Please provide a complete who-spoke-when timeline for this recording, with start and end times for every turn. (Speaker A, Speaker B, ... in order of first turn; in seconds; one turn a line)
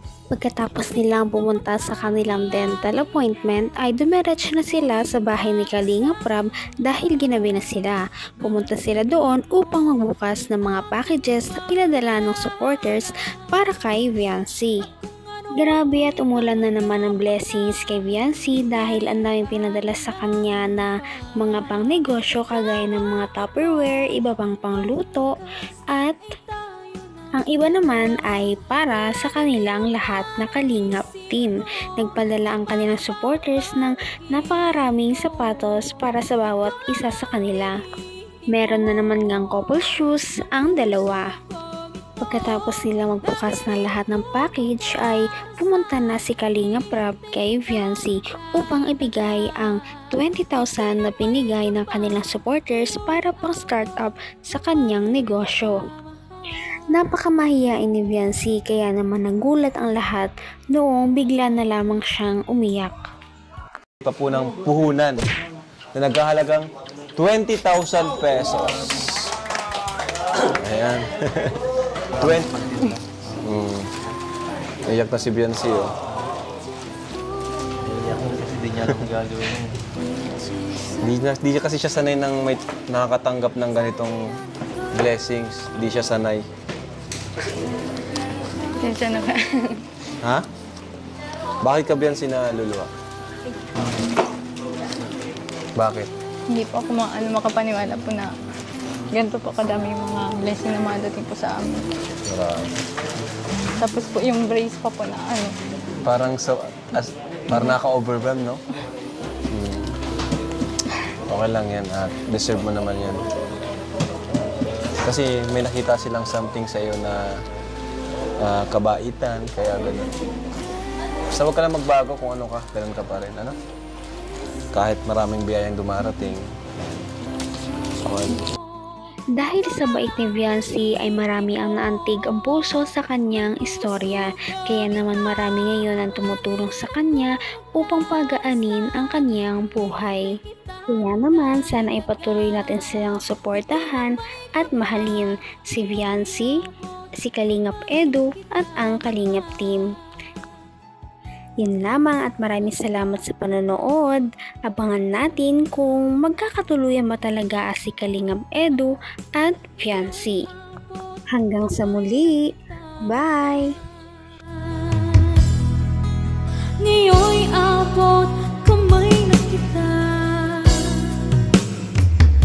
Speaker A: 0.3-14.8
Speaker A: 15.6-25.3
Speaker A: 25.9-26.2
Speaker A: 27.4-37.8
Speaker A: 38.5-41.3
Speaker A: 42.2-55.8
Speaker A: 56.9-63.0
Speaker B: 64.0-65.2
Speaker B: 65.9-69.3
Speaker B: 70.4-71.6
Speaker B: 72.2-72.7
Speaker C: 72.2-73.0
Speaker B: 73.4-73.9
Speaker B: 74.8-75.9
Speaker C: 77.8-79.8
Speaker B: 80.9-84.4
Speaker B: 84.9-86.5
Speaker D: 88.8-89.8
Speaker B: 90.2-90.5
Speaker B: 91.6-92.9
Speaker B: 95.8-96.1
Speaker D: 96.5-98.3
Speaker D: 99.1-101.9
Speaker B: 102.2-102.8
Speaker D: 103.8-105.5
Speaker B: 106.0-108.6
Speaker B: 109.5-110.0
Speaker B: 111.3-113.2
Speaker B: 115.0-117.3
Speaker B: 118.4-120.2
Speaker B: 121.3-123.6
Speaker B: 124.7-126.5
Speaker B: 128.0-128.4
Speaker A: 129.3-140.3
Speaker A: 140.9-146.6
Speaker A: 147.2-149.9
Speaker A: 151.6-160.4
Speaker A: 161.3-162.5
Speaker A: 163.1-163.7
Speaker D: 166.8-171.4